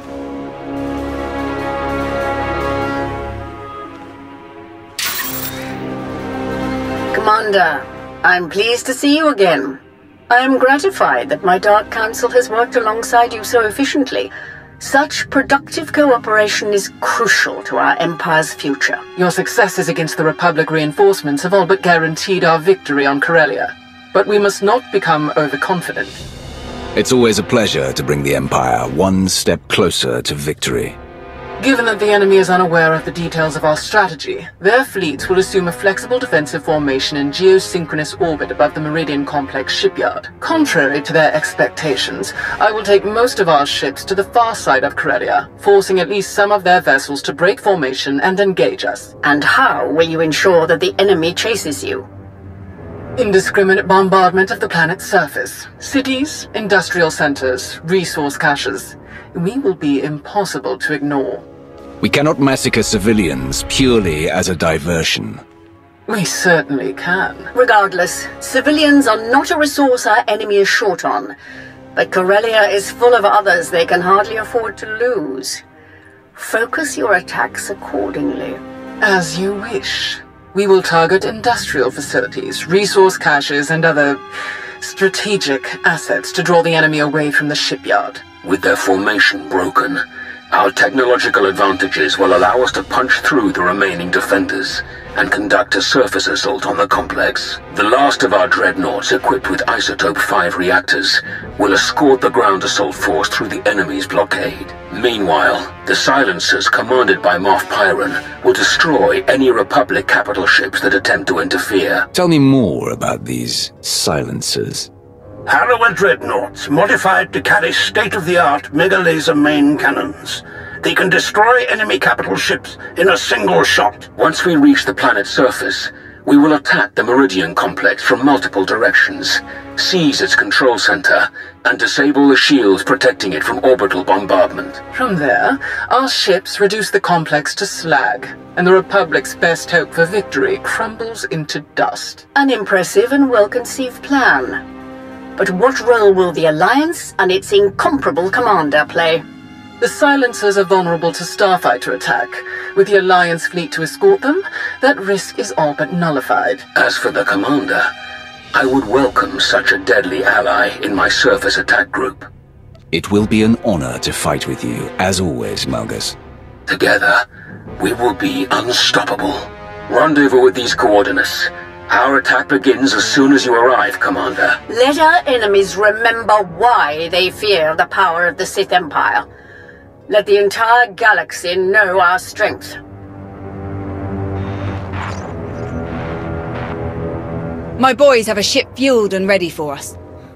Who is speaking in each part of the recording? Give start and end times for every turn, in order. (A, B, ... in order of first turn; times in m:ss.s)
0:07.1-0:19.0 A
0:19.2-0:26.2 B
0:26.9-0:31.0 C
0:31.6-0:49.1 B
0:49.2-0:52.1 A
0:53.2-1:01.4 B
1:02.0-1:05.4 C
1:06.1-1:07.5 B
1:07.6-1:11.3 A
1:12.0-1:15.6 A
1:16.4-1:18.6 A
1:19.0-1:24.2 B
1:24.8-1:28.2 B
1:28.4-1:52.1 D
1:52.1-1:54.9 C
1:55.5-2:04.1 E
2:04.2-2:14.8 D
2:14.9-2:22.2 B
2:22.4-2:24.6 A
2:25.4-2:29.2 A
2:29.8-2:36.6 B
2:36.8-2:37.9 D
2:38.5-2:42.3 D
2:42.9-2:46.2 C
2:46.7-2:47.2 D
2:47.8-2:54.6 D
2:54.7-2:59.3 A
3:00.1-3:02.8 A
3:07.8-3:10.0 F